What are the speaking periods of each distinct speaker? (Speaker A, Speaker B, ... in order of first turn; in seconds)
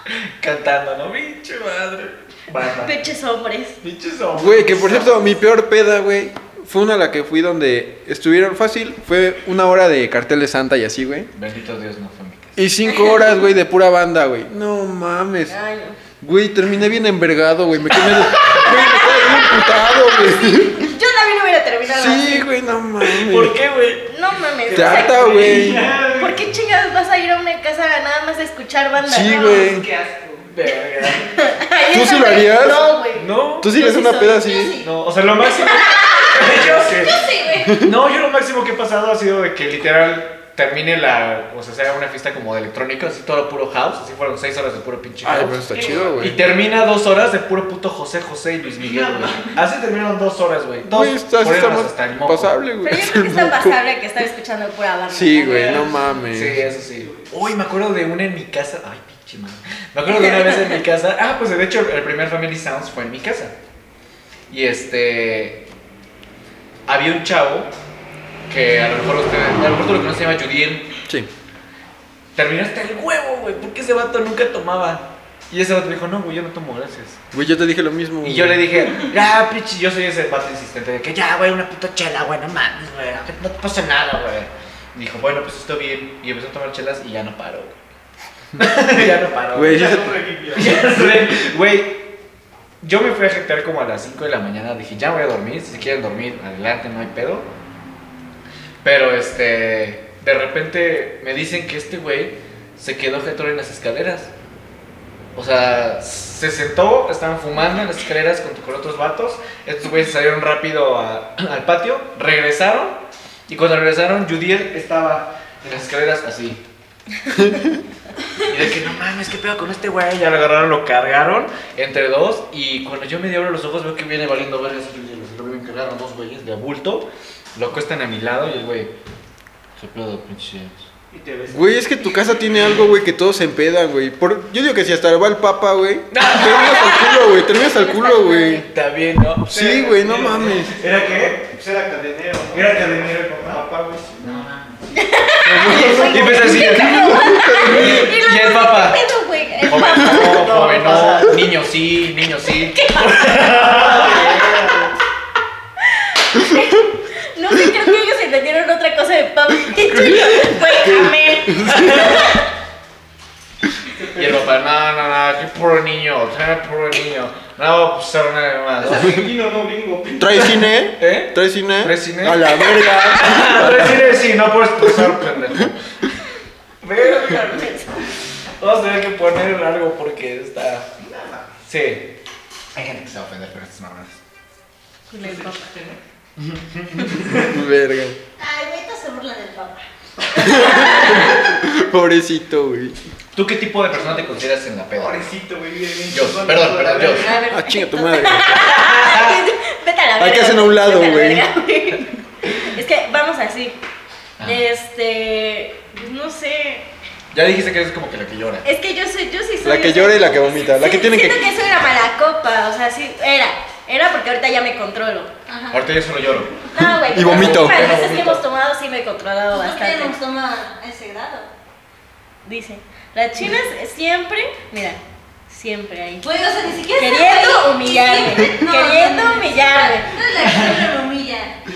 Speaker A: 0.4-3.0, 3.8-5.4, 11.3-12.6, 23.0-24.1, 30.5-31.3, 33.1-33.7, 34.8-37.2, 37.8-52.6, 56.3-63.5, 64.5-65.6, 66.9-67.7, 68.5-70.9, 72.3-77.2, 78.2-87.8, 88.6-89.9, 90.5-92.0, 92.8-97.5, 98.8-104.3, 105.3-116.6, 118.4-128.9, 129.8-130.9, 136.1-137.0, 138.6-139.5, 140.7-141.4, 142.5-145.0, 145.7-149.0, 149.6-154.4, 161.7-162.2, 164.2-169.2, 171.0-175.8, 176.8-177.8, 178.6-180.9, 181.7-182.1, 182.8-184.2, 186.4-187.3, 193.3-195.2, 196.1-197.3, 198.6-199.4, 207.3-208.7, 215.7-218.4
Speaker B: 2.8-3.8, 13.0-13.3, 15.5-16.0, 18.4-22.5, 24.1-25.6, 26.2-29.7, 31.4-34.7, 35.4-36.5, 52.8-55.9, 136.6-138.7, 144.9-151.1, 152.7-153.3, 155.9-162.4, 177.0-177.9, 185.1-185.7, 197.2-203.8, 204.4-206.8, 208.7-215.3, 216.7-220.2, 222.4-226.3, 227.0-230.1
Speaker C: 4.3-11.3, 12.6-15.6, 16.2-20.9, 21.9-23.6, 24.7-25.9, 29.0-29.9, 31.9-33.0, 33.6-34.8, 45.2-46.4, 50.8-53.8, 55.1-56.6, 77.3-78.6, 89.5-90.2, 117.4-117.7, 131.5-138.7, 139.4-140.7, 145.4-148.2, 159.7-162.2, 170.2-174.1, 174.8-175.7, 187.3-188.2, 190.3-193.0, 197.5-198.7, 200.2-201.5, 209.6-211.6, 216.8-218.0
Speaker D: 24.7-26.5, 29.4-30.5, 45.7-46.3, 48.8-49.6, 55.5-56.1, 57.0-57.2, 89.7-91.1, 131.1-131.8, 139.5-144.4, 150.1-151.4, 153.6-154.9, 163.9-164.5, 168.8-170.7, 181.0-181.5, 185.2-186.0, 187.2-187.4, 194.9-197.4
Speaker E: 34.4-34.9, 36.0-37.8, 188.4-189.9, 190.4-191.0, 215.5-215.8, 219.5-221.5, 226.2-231.6